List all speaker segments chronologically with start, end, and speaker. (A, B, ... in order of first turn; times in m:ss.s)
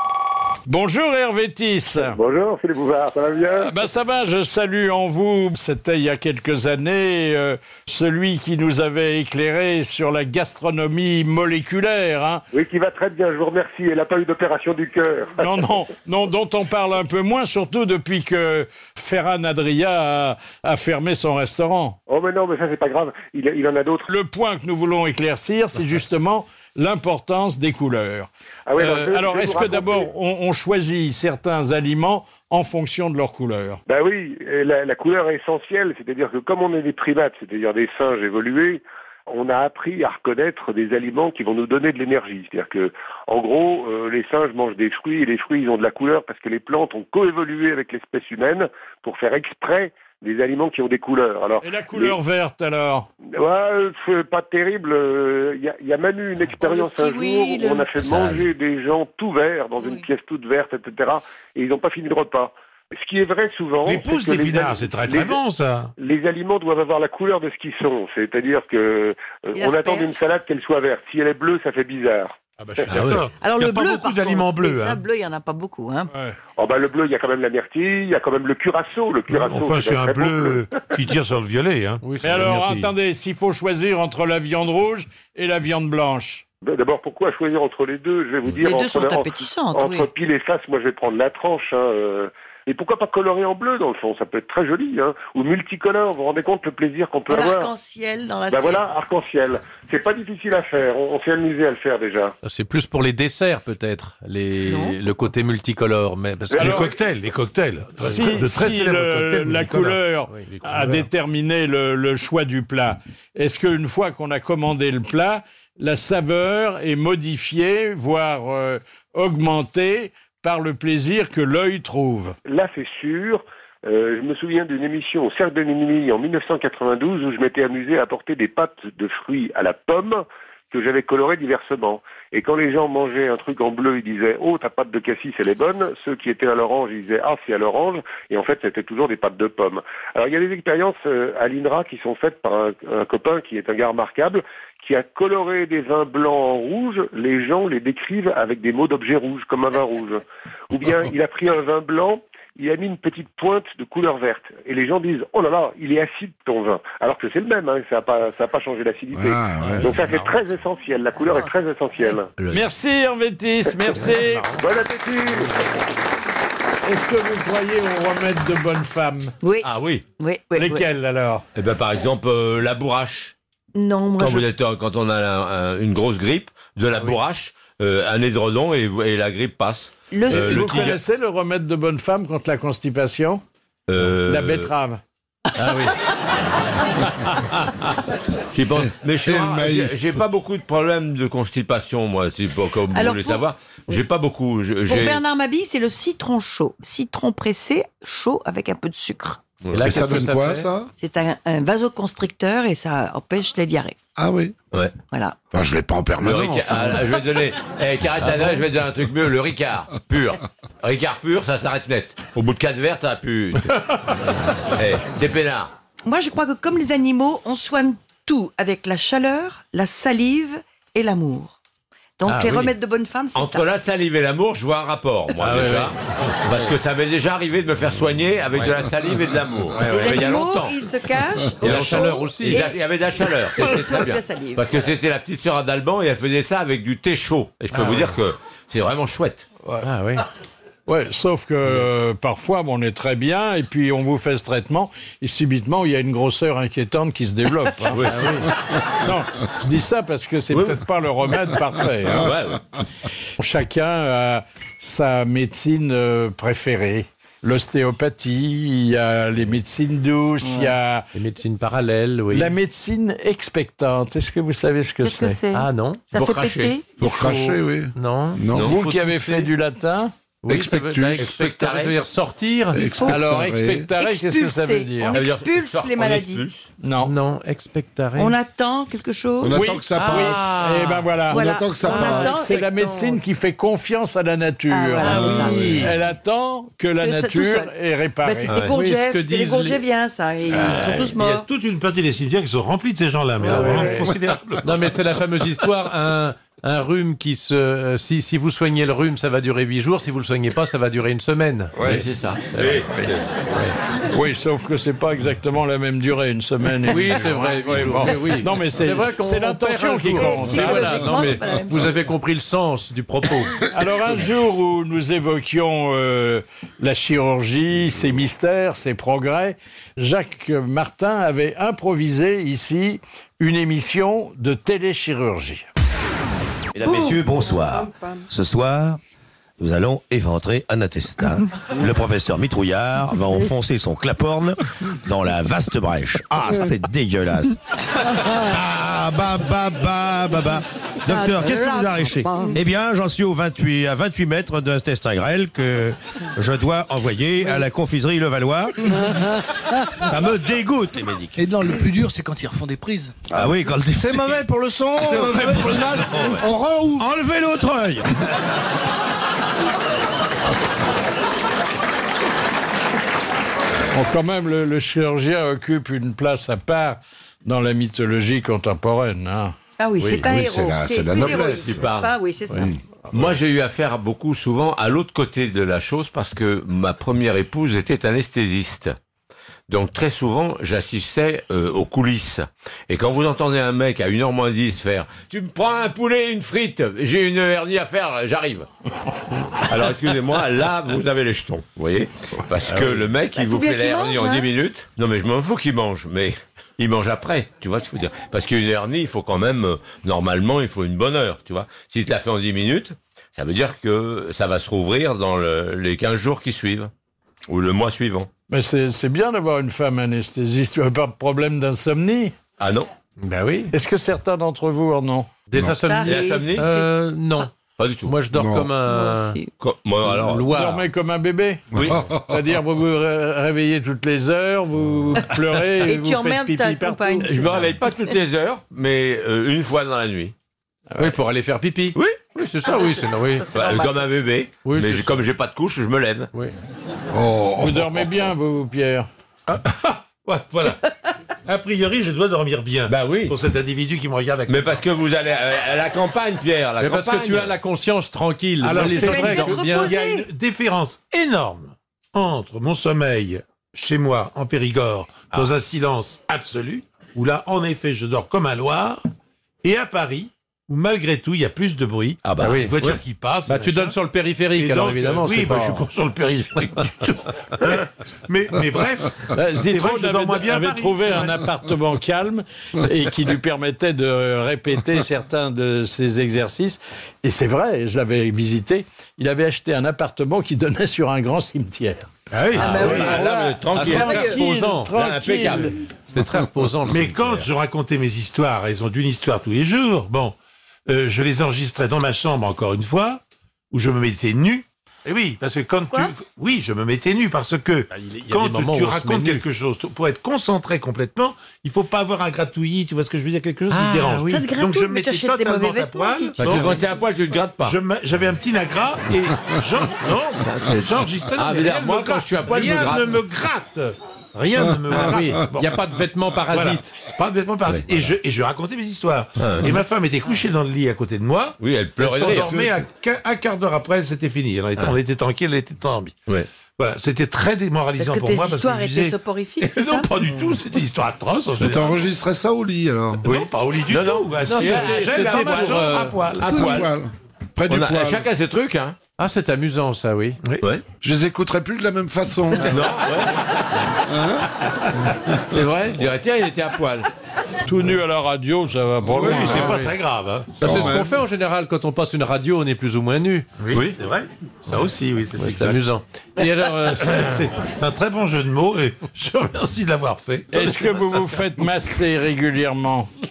0:00.7-0:02.2 A
0:02.0-0:03.7 B
0:03.6-0:12.4 A
0:12.5-0:15.5 B
0:15.4-0:22.0 A
0:22.1-0:24.1 B
0:24.1-0:33.8 A
0:28.7-0:30.1 B
0:33.9-0:52.2 B
0:51.6-0:53.1 A
0:53.4-1:05.4 B
0:56.5-0:57.9 C
0:59.8-1:00.0 C
1:03.8-1:05.9 D
1:06.0-1:12.9 B
1:09.5-1:10.2 C
1:12.6-1:15.0 D
1:12.9-1:13.2 E
1:13.3-1:16.1 C
1:16.1-1:16.4 A
1:16.6-1:20.8 B
1:19.3-1:22.5 D
1:22.0-1:22.9 F
1:22.2-1:26.4 A
1:26.6-1:37.7 B
1:28.6-1:30.1 C
1:37.3-1:38.8 C
1:38.5-1:42.3 B
1:42.4-1:46.9 F
1:46.5-1:50.0 D
1:46.6-1:46.9 A
1:48.0-2:02.4 A
1:48.0-1:48.3 F
1:50.3-1:51.0 F
2:02.4-2:42.3 B
2:39.1-2:40.0 G
2:39.6-2:40.4 F
2:42.4-2:42.6 E
2:42.5-2:44.5 A
2:43.9-2:44.6 F
2:44.6-2:45.5 B
2:45.3-2:45.7 F
2:46.8-2:49.3 A
2:49.4-2:49.7 C
2:49.6-2:50.0 E
2:50.2-2:50.8 C
2:50.5-2:51.4 A
2:51.6-2:53.3 E
2:53.7-2:54.4 C
2:54.2-3:01.0 E
3:00.1-3:00.9 C
3:00.3-3:03.4 A
3:03.9-3:04.7 E
3:04.2-3:05.0 A
3:05.6-3:06.0 F
3:08.5-3:15.2 E
3:08.8-3:10.2 G
3:12.9-3:14.0 C
3:14.8-3:19.4 C
3:19.6-3:19.9 E
3:19.7-3:20.7 F
3:19.8-3:20.9 G
3:21.0-3:24.0 C
3:24.2-3:24.5 G
3:24.7-3:25.0 E
3:25.1-3:25.4 C
3:25.5-3:27.2 G
3:26.2-3:33.8 E
3:34.7-3:35.7 E
3:36.0-3:41.6 C
3:42.2-3:43.6 C
3:42.2-3:42.7 F
3:43.3-3:50.8 E
3:45.4-3:46.0 F
3:49.8-3:54.7 C
3:49.8-3:50.1 F
3:51.6-3:59.4 E
3:51.6-3:52.7 F
3:57.7-3:58.2 F
3:59.8-4:00.2 F
4:00.9-4:08.1 A
4:07.9-4:08.3 E
4:08.0-4:08.5 F
4:08.8-4:12.3 A
4:10.5-4:10.8 E
4:12.1-4:12.6 E
4:13.4-4:21.0 A
4:21.1-4:22.5 F
4:22.3-4:25.4 A
4:25.0-4:26.8 C
4:25.5-4:26.0 F
4:26.1-4:26.8 E
4:27.0-4:28.7 G
4:27.0-4:29.5 F
4:28.6-4:30.1 A
4:30.4-4:32.9 F
4:30.5-4:31.4 G
4:31.3-4:31.9 E
4:32.7-4:33.9 G
4:32.8-4:33.2 C
4:33.1-4:35.2 A
4:34.0-4:36.4 C
4:35.1-4:36.7 E
4:36.8-4:37.1 A
4:37.0-4:38.4 F
4:38.2-4:39.6 C
4:39.4-4:40.6 G
4:39.5-4:48.6 A
4:39.9-4:41.1 F
4:41.3-4:43.1 C
4:41.3-4:42.4 G
4:41.8-4:42.6 F
4:44.7-4:45.9 C
4:45.0-4:45.9 G
4:47.0-4:47.7 C
4:48.2-4:51.4 C
4:48.5-4:49.8 F
4:50.5-4:51.0 F
4:51.0-4:54.9 D
4:53.4-4:54.1 F
4:54.6-5:01.8 F
5:01.8-5:03.2 E
5:02.5-5:02.8 F
5:04.1-5:11.2 A
5:06.9-5:13.6 F
5:10.1-5:12.0 C
5:13.7-5:25.6 A
5:26.7-5:29.0 H
5:29.6-5:37.6 H
5:38.4-5:48.9 H
5:50.0-5:51.3 H
5:51.3-5:53.2 I
5:53.3-5:58.1 H
5:55.1-5:56.4 E
5:55.1-5:55.7 I
5:56.4-5:56.8 I
6:03.9-6:09.5 A
6:09.8-6:12.7 C
6:10.1-6:11.8 G
6:11.5-6:12.2 E
6:13.1-6:19.0 E
6:19.7-6:28.7 E
6:29.6-6:46.9 E
6:32.7-6:33.0 F
6:33.3-6:34.5 C
6:47.5-6:48.3 E
6:48.5-6:52.4 A
6:52.6-6:52.9 E
6:53.2-6:53.7 F
6:53.7-6:55.3 A
6:55.5-6:59.4 F
6:55.7-6:56.9 C
6:56.0-6:56.6 E
6:57.7-6:58.2 E
6:58.3-6:58.7 G
6:58.8-6:59.5 C
6:59.6-7:00.6 E
7:00.0-7:00.8 F
7:00.5-7:07.4 A
7:01.7-7:02.1 E
7:01.7-7:02.4 G
7:05.8-7:07.7 C
7:07.2-7:10.3 E
7:07.3-7:07.7 F
7:10.9-7:11.2 A
7:11.0-7:13.7 F
7:12.6-7:14.1 C
7:13.5-7:16.3 E
7:14.6-7:15.2 F
7:17.1-7:18.0 G
7:17.6-7:19.1 A
7:19.5-7:20.8 D
7:21.4-7:24.7 D
7:22.9-7:23.4 E
7:24.5-7:27.6 E
7:26.8-7:30.0 F
7:28.6-7:39.0 D
7:28.7-7:30.2 C
7:39.6-7:44.0 D
7:42.2-7:43.0 E
7:42.4-7:42.7 F
7:43.5-7:45.9 F
7:44.5-7:51.4 D
7:49.3-8:05.8 A
8:02.3-8:02.8 D
8:02.5-8:04.3 E
8:02.6-8:04.9 F
8:04.0-8:04.4 C
8:04.9-8:05.7 E
8:06.1-8:07.5 F
8:06.8-8:10.4 D
8:10.9-8:26.8 D
8:17.9-8:19.4 F
8:23.7-8:24.4 F
8:24.2-8:26.8 C
8:26.4-8:27.8 E
8:27.6-8:35.7 D
8:30.5-8:30.7 E
8:31.3-8:33.2 E
8:34.9-8:37.0 F
8:36.5-8:46.2 D
8:37.7-8:38.0 E
8:39.4-8:39.8 E
8:41.6-8:42.6 E
8:42.2-8:42.8 G
8:46.8-8:52.0 D
8:48.0-8:50.1 C
8:51.6-8:53.3 G
8:53.2-8:56.7 D
8:53.2-8:56.9 E
8:54.4-8:56.2 F
8:56.4-8:58.3 G
8:57.7-8:59.0 E
8:59.2-9:00.4 F
9:01.0-9:03.0 G
9:02.7-9:03.3 E
9:04.0-9:04.5 G
9:05.5-9:07.1 E
9:07.6-9:09.7 A
9:09.1-9:09.6 G
9:09.2-9:10.8 D
9:09.5-9:09.9 F
9:10.6-9:13.5 F
9:10.6-9:11.1 G
9:13.6-9:15.8 D
9:13.7-9:14.0 E
9:15.4-9:17.4 F
9:16.9-9:21.4 D
9:20.5-9:23.1 A